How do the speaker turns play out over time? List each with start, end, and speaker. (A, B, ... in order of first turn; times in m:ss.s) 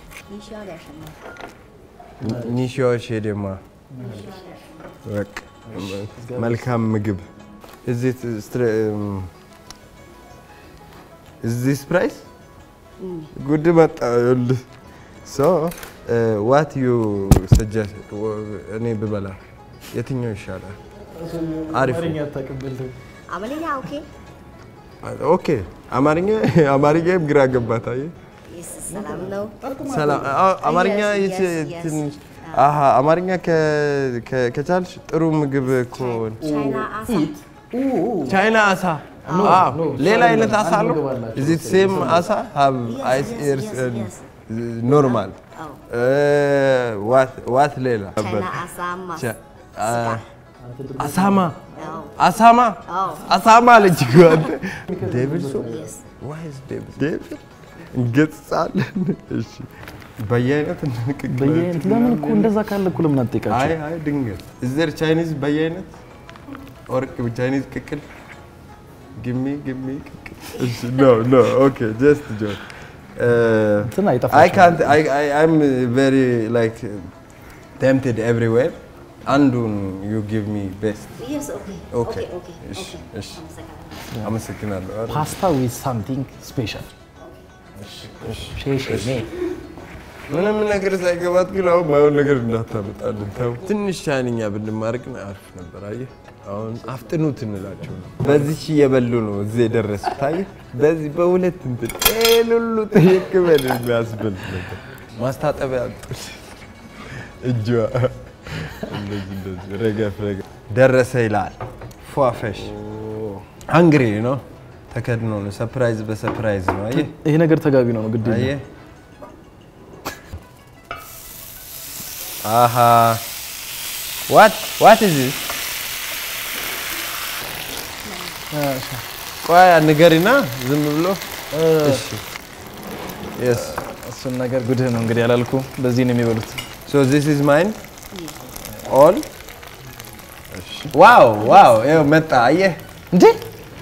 0:00.3-0:01.2 A
0:02.2-0:03.6 B
0:04.0-0:04.3 C
0:04.0-0:04.7 A
0:05.0-0:07.2 B
0:05.7-0:06.6 C
0:07.8-0:09.3 B
0:11.4-0:12.2 B
0:13.0-0:13.3 A
0:13.3-0:14.6 B
0:15.2-0:19.4 B
0:19.9-0:20.8 B
0:21.2-0:22.9 C
0:21.7-0:22.2 B
0:23.3-0:24.1 A
0:25.0-0:28.1 B
0:28.5-0:29.5 A
0:29.0-0:30.4 C
0:29.8-0:36.5 B
0:30.6-0:32.6 A
0:35.7-0:37.4 A
0:36.4-0:38.3 C
0:38.2-0:45.4 B
0:39.2-0:39.7 A
0:39.2-0:42.3 C
0:42.9-0:44.3 A
0:44.9-0:45.8 A
0:45.9-0:50.2 B
0:48.2-0:49.3 A
0:49.8-0:50.2 A
0:50.6-0:51.5 C
0:51.0-0:51.6 B
0:51.7-0:52.3 A
0:52.2-1:02.6 B
0:52.9-0:53.3 A
0:53.9-0:54.4 A
0:54.9-0:55.8 C
0:55.6-0:56.1 A
1:01.3-1:03.7 C
1:03.5-1:06.0 B
1:06.9-1:08.0 B
1:09.2-1:17.1 B
1:13.8-1:15.0 C
1:17.8-1:21.2 B
1:21.2-1:24.1 A
1:21.9-1:23.4 B
1:24.2-1:25.4 B
1:25.1-1:26.9 C
1:27.9-1:29.3 C
1:28.2-1:29.2 B
1:30.3-1:52.7 B
1:52.7-1:53.4 C
1:53.7-1:57.1 B
1:56.9-1:58.5 C
1:58.2-1:58.6 B
2:02.4-2:03.2 B
2:04.3-2:05.4 B
2:08.1-2:08.3 A
2:08.5-2:09.0 C
2:09.4-2:11.2 B
2:11.5-2:12.0 C
2:11.8-2:12.2 B
2:13.4-2:13.8 B
2:13.5-2:16.6 C
2:16.8-2:17.8 B
2:18.1-2:18.5 A
2:18.8-2:19.2 B
2:20.8-2:22.8 B
2:23.1-2:23.4 C